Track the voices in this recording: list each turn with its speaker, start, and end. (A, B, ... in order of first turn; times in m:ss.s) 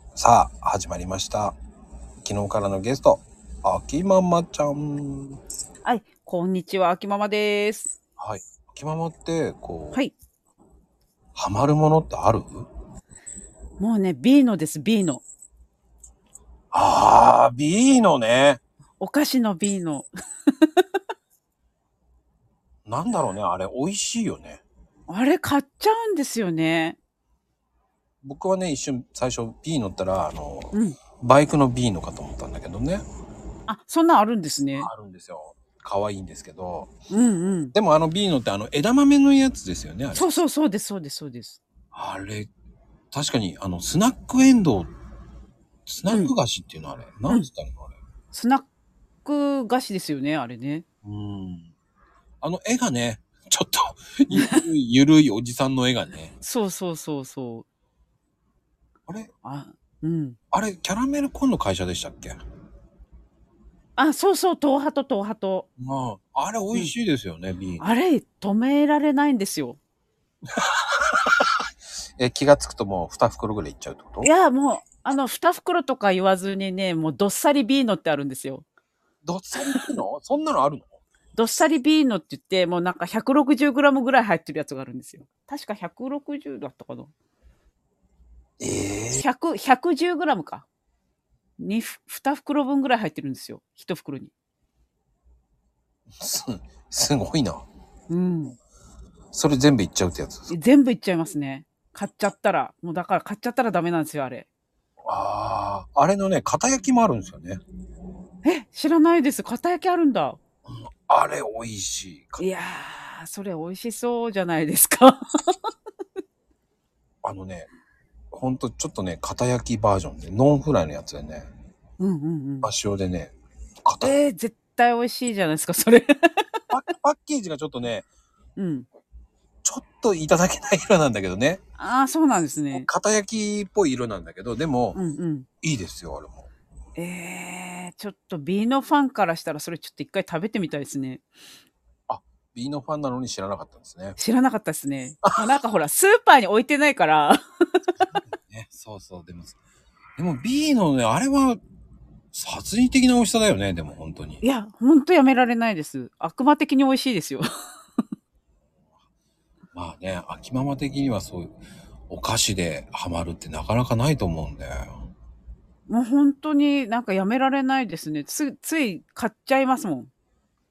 0:00.2-0:01.6 A
0:02.2-0:05.4 A
0:05.8-0:08.0 B
0:08.2-0:10.0 A
0:11.4-0:12.7 A
0:13.8-0:15.2 B
0:16.7-0:18.6 A
0:19.0-0:20.8 B
0:22.9-0:24.6 A
0:25.1-0:27.0 B
0:28.2-0:33.0 A
0:33.7-0:34.9 B
0:34.8-0:36.9 A
0:37.1-0:37.7 B
0:37.7-0:40.3 A
0:40.2-0:41.6 B
0:41.9-0:42.5 A
0:43.1-0:44.9 A
0:45.9-0:47.9 A
0:46.1-0:46.3 B
0:48.3-0:48.7 B
0:49.2-0:50.8 B
0:51.0-0:51.7 A
0:52.4-0:56.4 A
0:54.3-0:54.6 B
0:56.4-0:57.6 B
0:59.4-1:00.4 B
1:00.5-1:02.4 A
1:04.0-1:05.7 B
1:05.8-1:07.8 A
1:07.8-1:09.8 B
1:10.6-1:11.5 A
1:12.2-1:14.3 A
1:14.2-1:18.6 B
1:19.2-1:21.0 A
1:21.4-1:27.1 B
1:28.6-1:29.2 A
1:29.2-1:30.7 B
1:31.6-1:34.3 B
1:36.2-1:37.6 A
1:38.1-1:38.6 B
1:39.3-1:40.5 A
1:40.5-1:44.5 B
1:45.0-1:47.6 A
1:48.4-1:50.4 B
1:50.7-1:52.4 A
1:52.4-1:55.6 B
1:57.2-1:57.7 A
1:58.3-2:01.5 A
2:02.0-2:02.7 B
2:02.6-2:03.3 A
2:03.8-2:04.2 A
2:04.0-2:06.6 B
2:06.7-2:08.1 A
2:08.6-2:08.9 B
2:09.6-2:11.6 A
2:11.8-2:12.9 B
2:12.7-2:15.0 A
2:15.0-2:15.5 B
2:15.6-2:16.5 A
2:17.0-2:21.2 B
2:22.1-2:24.2 A
2:24.2-2:27.9 B
2:28.1-2:29.6 A
2:30.2-2:31.6 A
2:32.3-2:34.4 A
2:34.4-2:37.5 B
2:39.8-2:41.6 A
2:42.1-2:45.1 A
2:45.9-2:50.1 B